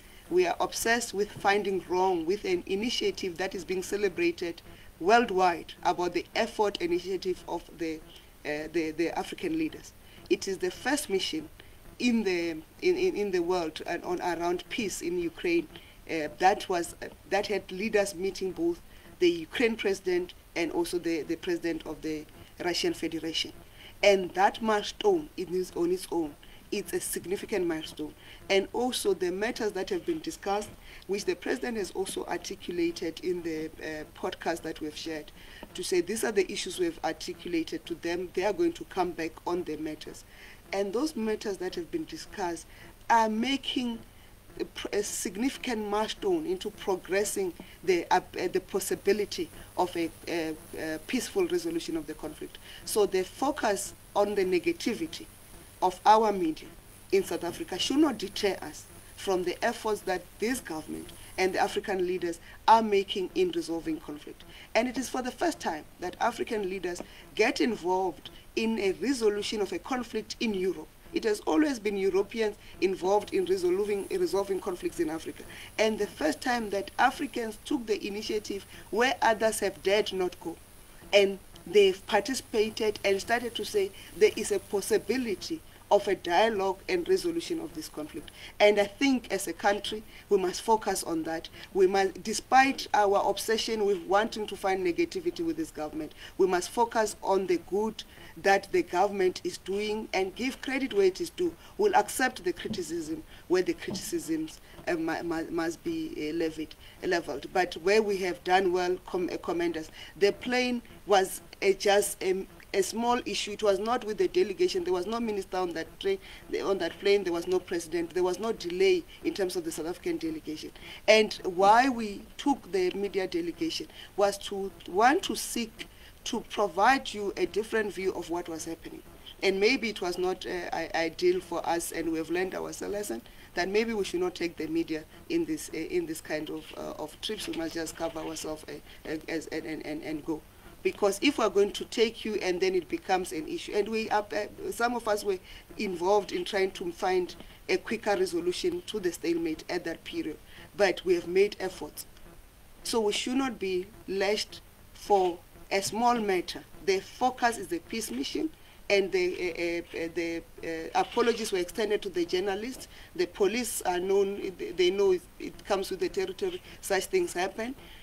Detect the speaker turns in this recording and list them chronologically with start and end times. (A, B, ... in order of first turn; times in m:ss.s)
0:00.3-0:44.0 A
0:44.6-0:55.3 A
0:55.8-1:20.6 A
1:21.1-2:32.1 A
2:32.8-2:47.8 A